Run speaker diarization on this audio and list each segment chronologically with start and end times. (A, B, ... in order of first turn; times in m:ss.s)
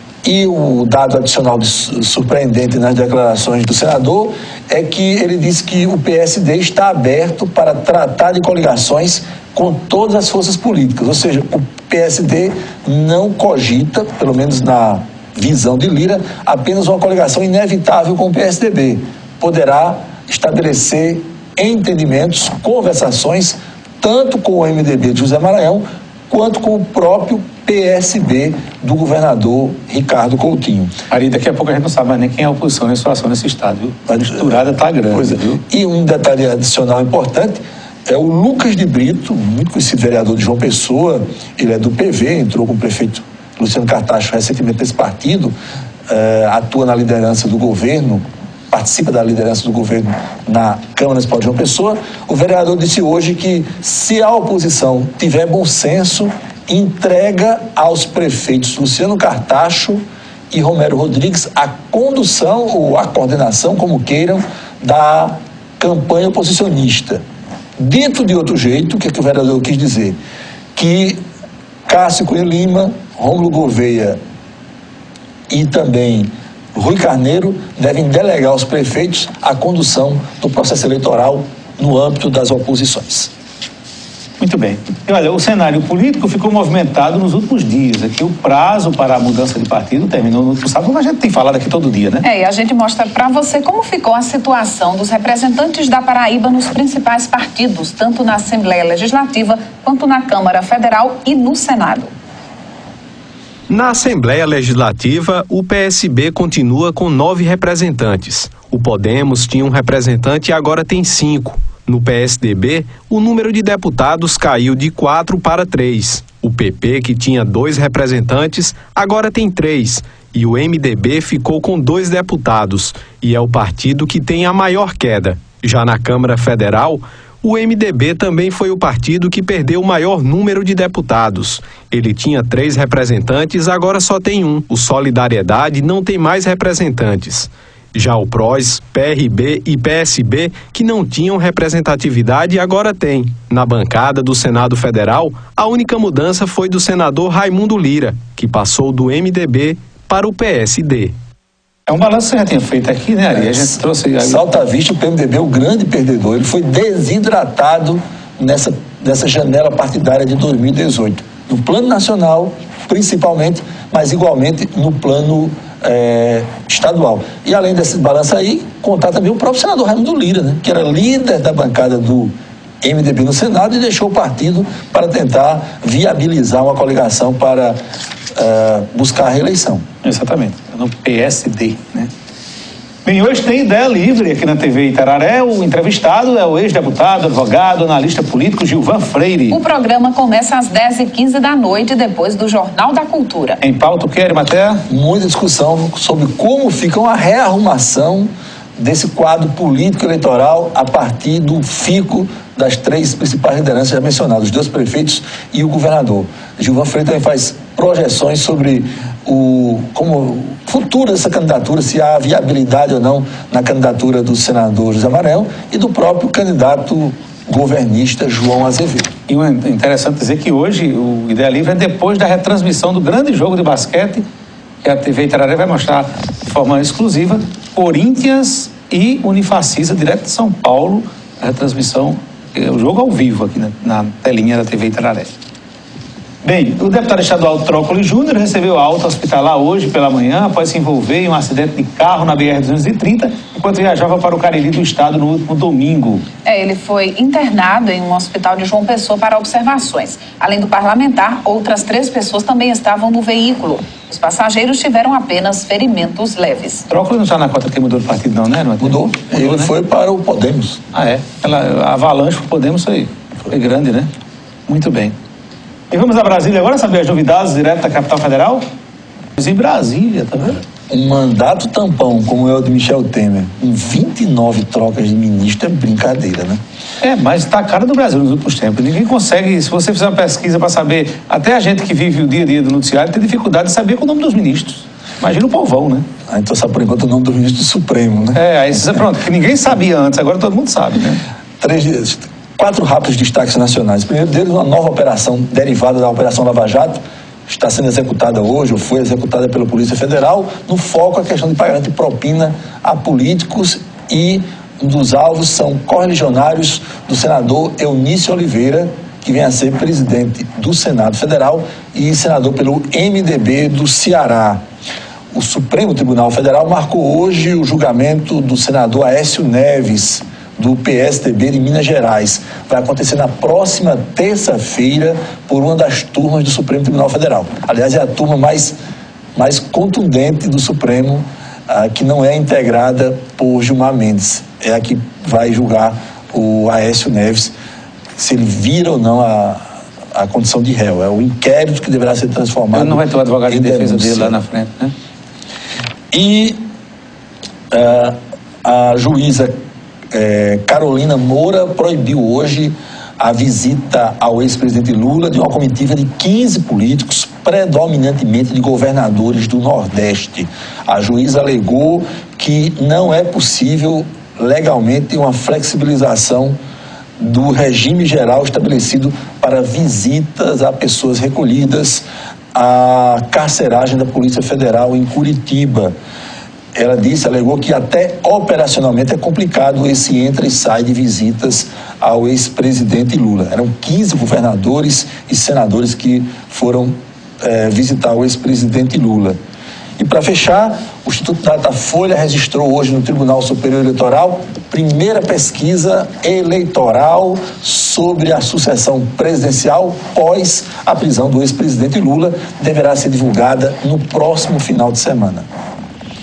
0:00.2-0:30.9 A
0:31.1-0:35.6 B
0:35.1-0:45.5 A
0:46.1-1:07.2 A
1:07.8-1:10.2 A
1:10.8-1:11.2 A
1:11.9-1:14.2 A
1:15.5-1:23.3 A
1:24.4-1:32.2 B
1:32.2-1:42.1 C
1:43.7-2:31.1 D
2:31.9-2:34.4 B
2:34.2-2:57.8 A
2:58.4-2:59.8 A
3:00.0-3:02.1 B
3:03.0-3:09.6 B
3:09.5-3:13.6 C
3:13.6-3:14.8 B
3:14.9-3:39.1 A
3:39.3-3:44.2 B
3:44.8-3:55.3 B
3:56.4-4:06.2 B
4:06.4-4:16.8 C
4:16.9-4:19.7 B
4:18.8-4:20.8 A
4:20.9-4:24.1 B
4:24.7-4:25.2 B
4:25.9-4:28.6 B
4:29.4-4:30.6 B
4:30.9-4:36.6 A
4:37.0-4:46.0 B
4:46.3-4:48.4 A
4:48.4-4:51.2 B
4:51.6-5:14.6 A
5:15.3-5:28.8 A
5:29.4-5:37.5 A
5:38.2-5:44.3 A
5:42.7-5:44.9 B
5:46.1-5:46.6 A
5:47.7-5:49.5 A
5:50.1-6:06.6 A
6:07.2-6:15.9 A
6:16.8-6:29.4 A
6:30.0-6:45.5 A